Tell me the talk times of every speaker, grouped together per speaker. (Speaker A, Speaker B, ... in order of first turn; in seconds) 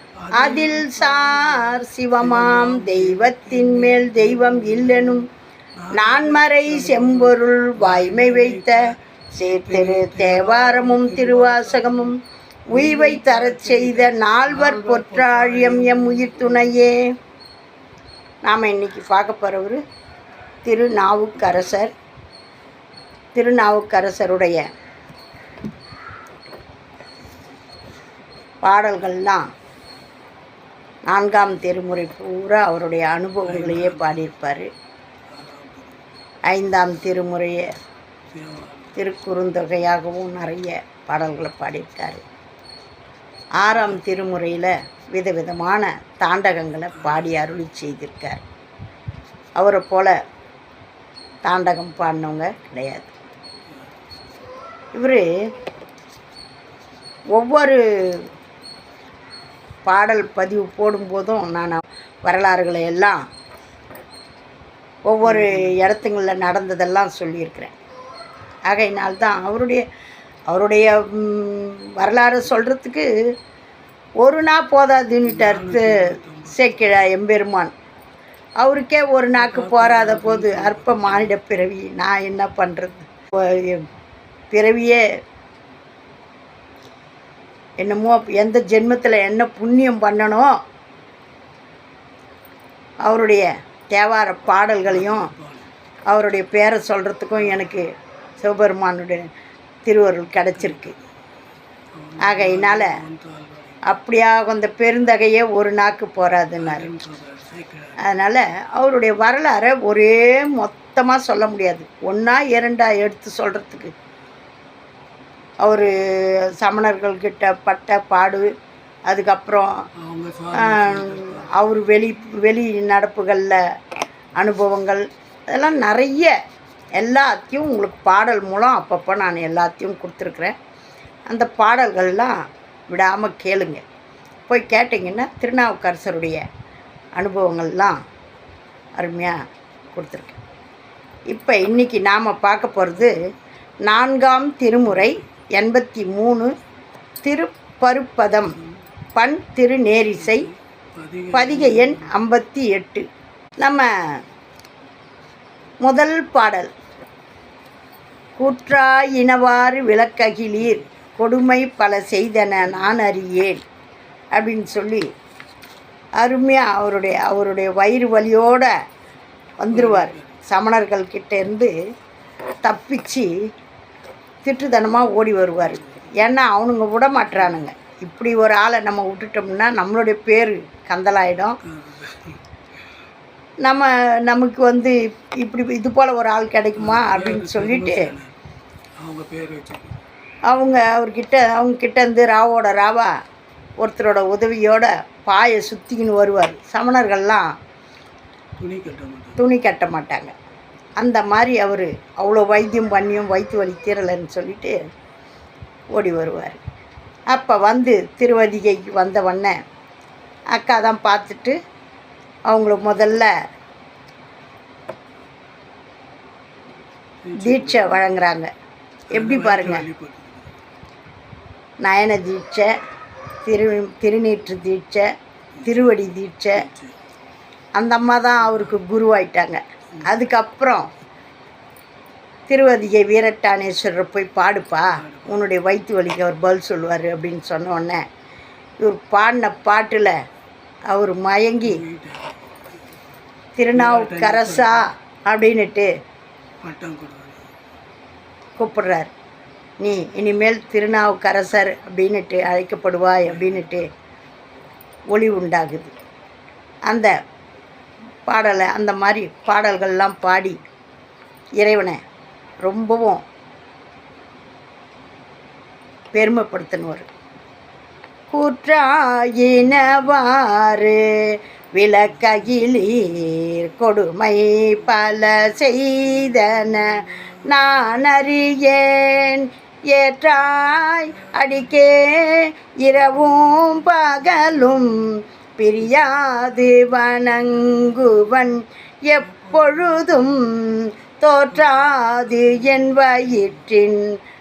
Speaker A: 0.2-5.2, 5.8-8.8, 9.4-12.1, 12.7-16.8, 33.5-34.3, 35.3-36.0, 38.3-38.9, 46.9-47.5, 65.2-65.7, 75.2-76.9, 79.3-81.3, 94.9-95.7, 100.6-101.1, 102.0-103.8, 106.6-108.0, 120.0-121.7, 144.8-145.4, 150.2-152.1, 160.6-160.9, 169.7-170.4, 175.7-176.1, 181.6-182.4, 186.8-188.3, 189.0-190.0, 198.6-199.4, 217.2-218.1, 219.1-220.5, 226.6-226.9, 234.9-235.4, 241.6-242.4, 243.7-244.8, 246.6-247.5, 253.3-253.6, 289.4-290.3, 291.6-293.4
Speaker B: 0.3-5.3, 5.9-8.8, 9.3-12.2, 12.7-17.0, 18.4-19.8, 20.6-21.9, 23.3-24.6, 28.6-29.4, 31.1-34.7, 36.5-37.7, 39.0-42.2, 43.6-48.4, 49.5-50.1, 51.4-53.1, 54.9-55.2, 57.3-58.2, 59.9-63.2, 65.1-67.7, 68.7-69.8, 70.5-73.1, 74.2-77.7, 78.6-83.9, 84.5-85.0, 87.8-90.5, 93.0-95.3, 96.1-99.2, 99.8-100.9, 102.2-103.0, 103.8-106.9, 108.0-113.9, 115.6-118.5, 119.1-119.7, 120.5-123.6, 124.4-126.3, 127.0-130.5, 131.3-132.3, 132.9-133.8, 134.5-136.4, 137.2-137.9, 139.0-139.3, 139.9-140.4, 141.3-143.2, 143.8-146.5, 147.2-148.6, 149.2-150.5, 151.3-153.0, 153.6-153.9, 155.8-156.7, 158.4-163.6, 164.3-165.1, 166.2-168.7, 169.6-171.7, 172.6-173.3, 174.4-181.6, 183.6-188.1, 190.5-193.1, 193.8-197.5, 199.4-200.3, 201.0-204.7, 205.9-206.6, 207.3-209.5, 210.5-211.6, 212.5-213.3, 217.4-218.5, 219.1-219.8, 221.8-222.7, 223.4-225.1, 225.6-226.6, 227.8-230.9, 232.5-238.0, 238.8-240.1, 240.9-241.8, 243.6-245.9, 248.6-249.1, 249.8-253.9, 255.1-255.9, 258.3-260.6, 261.6-262.0, 262.6-263.2, 266.1-267.1, 268.3-294.0